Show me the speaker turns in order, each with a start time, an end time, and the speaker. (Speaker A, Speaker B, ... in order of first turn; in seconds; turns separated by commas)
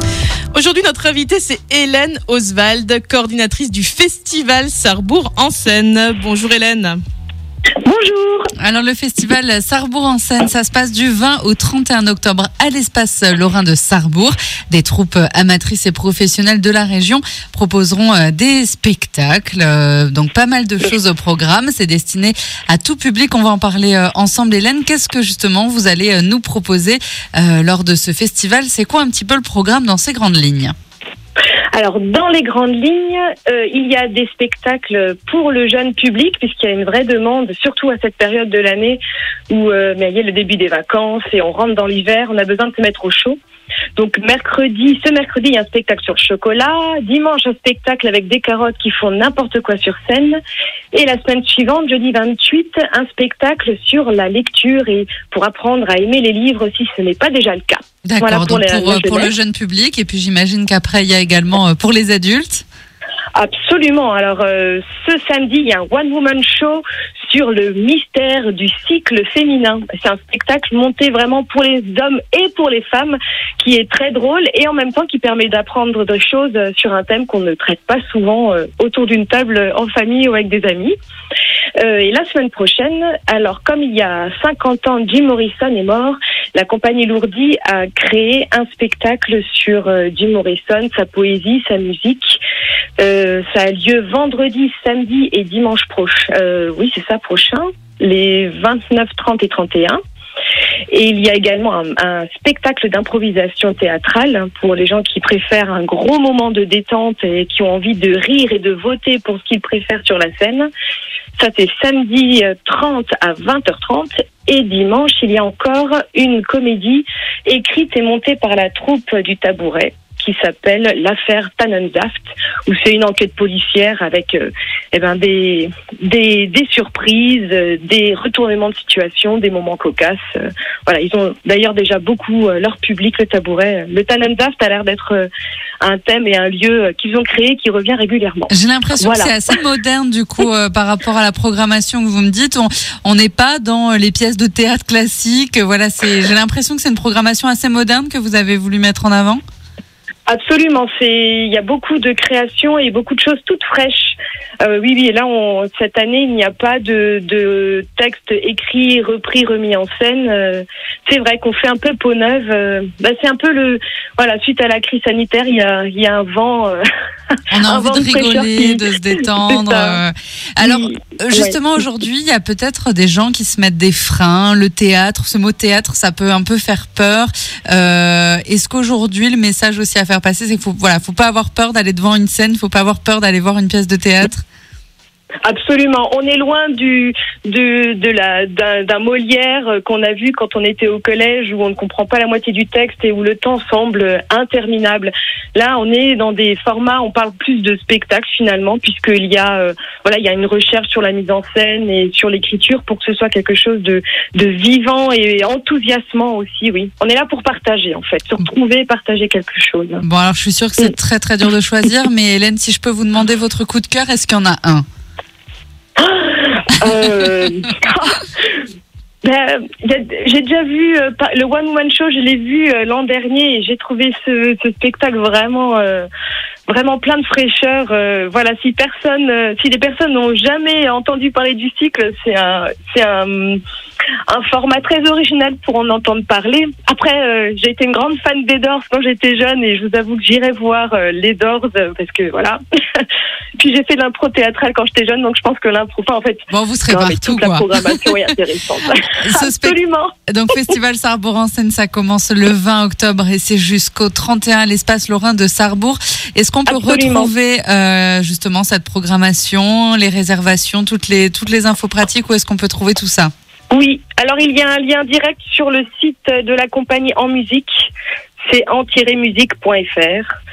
Speaker A: 0.5-7.0, Speaker B: 7.8-8.5, Speaker C: 8.6-30.7, Speaker B: 31.7-39.0, Speaker B: 39.5-43.4, Speaker B: 44.0-50.4, Speaker B: 50.9-59.3, Speaker C: 58.0-62.6, Speaker B: 63.4-80.9, Speaker B: 81.8-92.4, Speaker B: 93.0-100.0, Speaker B: 100.9-110.7, Speaker B: 111.4-135.3, Speaker B: 135.8-139.5, Speaker C: 138.5-149.4, Speaker B: 150.3-166.8, Speaker C: 167.5-184.4, Speaker B: 167.7-168.9, Speaker B: 169.4-170.0, Speaker B: 170.6-171.6, Speaker B: 185.4-210.0, Speaker C: 210.0-214.8, Speaker B: 216.0-218.6, Speaker B: 219.2-226.1, Speaker B: 226.7-233.6, Speaker B: 234.3-243.1, Speaker B: 243.6-250.1, Speaker C: 246.5-248.0, Speaker C: 249.2-249.8, Speaker C: 250.3-263.3, Speaker B: 256.6-257.3, Speaker B: 263.7-267.9, Speaker B: 268.4-270.3